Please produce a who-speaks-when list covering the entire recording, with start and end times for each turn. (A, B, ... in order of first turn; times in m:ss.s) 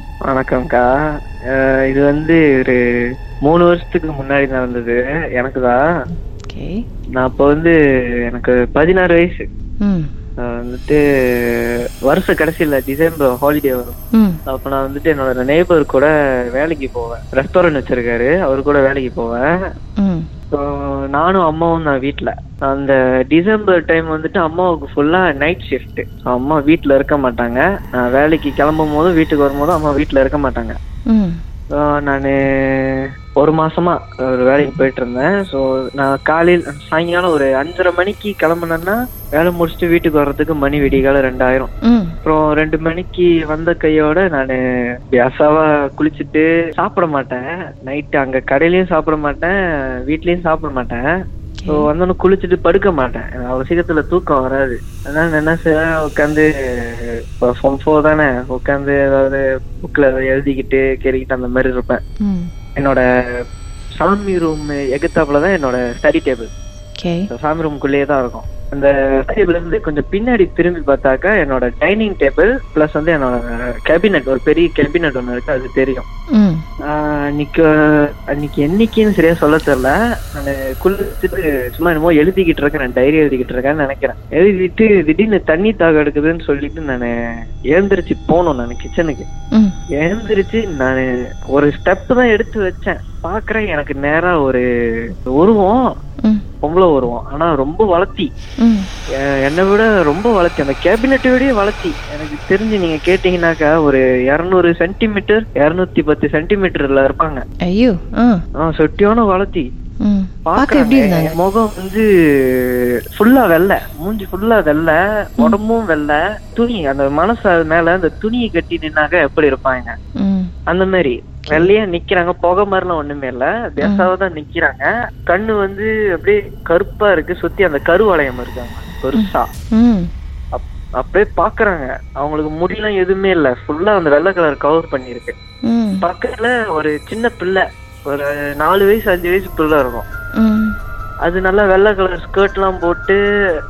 0:00.3-0:00.9 A
0:01.5-0:02.8 A
0:03.4-0:05.8 A
0:07.2-0:07.8 A
0:08.3-0:09.4 A
0:09.8-0:10.1 B
0:10.4-0:14.0 A
0:14.1-0:14.4 B
0:14.5-0:19.5 A
0:20.0-0:20.3 B
0:20.5-0:30.8 A
0:31.1-0:31.4 B
0:31.8-0:41.7 A
0:41.9-0:42.1 B
0:42.2-0:44.6 A
0:45.1-0:51.0 A
0:51.6-0:51.9 B
0:51.7-1:02.0 A
1:02.2-1:02.5 B
1:02.8-1:03.0 A
1:04.0-1:06.5 A
1:07.0-1:07.3 B
1:07.3-1:16.1 A
1:16.4-1:16.6 B
1:16.9-1:27.1 A
1:27.7-1:29.3 A
1:30.0-1:34.6 A
1:35.3-1:35.8 A
1:36.6-1:38.3 A
1:38.6-1:38.9 B
1:39.2-1:47.4 A
1:47.7-1:48.4 B
1:48.6-1:49.6 A
1:50.0-1:51.4 B
1:50.4-2:00.0 A
2:00.2-2:00.5 B
2:00.7-2:09.5 A
2:03.8-2:04.1 B
2:09.1-2:10.1 B
2:10.5-2:15.3 A
2:15.7-2:16.0 B
2:16.0-2:20.0 A
2:20.4-2:20.7 B
2:21.2-2:23.2 A